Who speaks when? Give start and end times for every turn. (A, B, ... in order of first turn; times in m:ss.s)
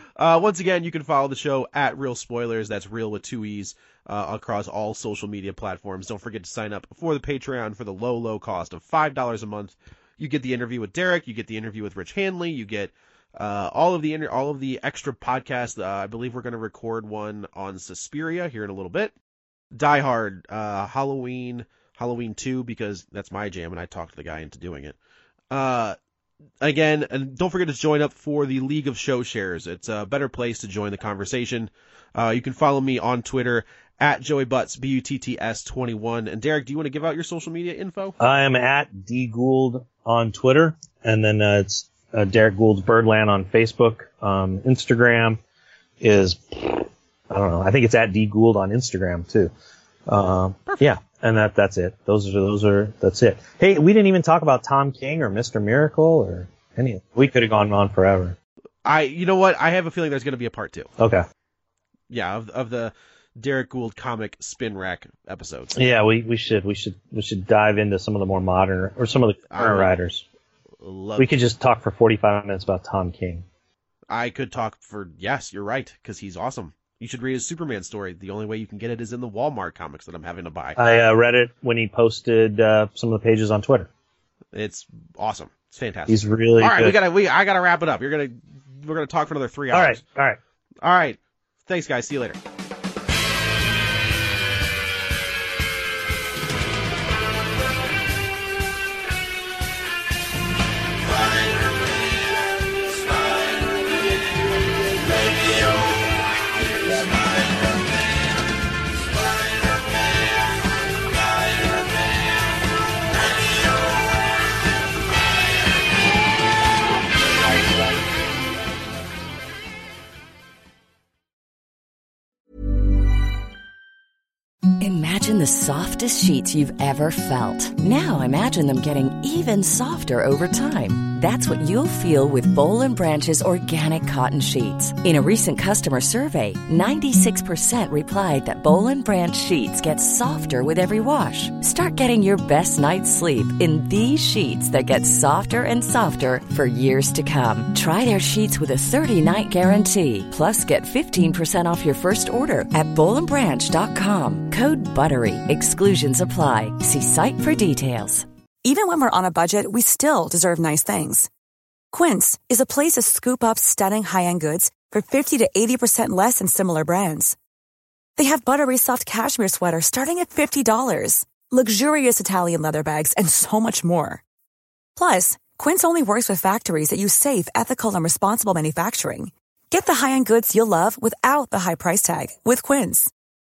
0:00.2-0:19.1 A
0:19.7-0:25.0 A
0:25.5-0:26.0 A
0:26.6-0:38.1 A
0:38.2-0:45.4 B
0:46.0-0:49.5 B
0:50.1-0:58.4 B
0:58.8-1:00.9 A
1:01.0-1:01.2 B
1:02.1-1:05.8 A
1:05.8-1:10.2 B
1:09.5-1:09.9 A
1:10.8-1:11.3 A
1:11.2-1:13.4 B
1:14.1-1:20.8 A
1:20.8-1:23.9 B
1:24.5-1:30.0 A
1:26.1-1:27.0 B
1:29.7-1:30.4 B
1:30.8-1:32.4 A
2:04.8-2:38.3 C
2:38.6-2:41.3 D
2:41.9-2:47.4 D
2:48.2-2:54.2 D
2:55.0-3:03.1 D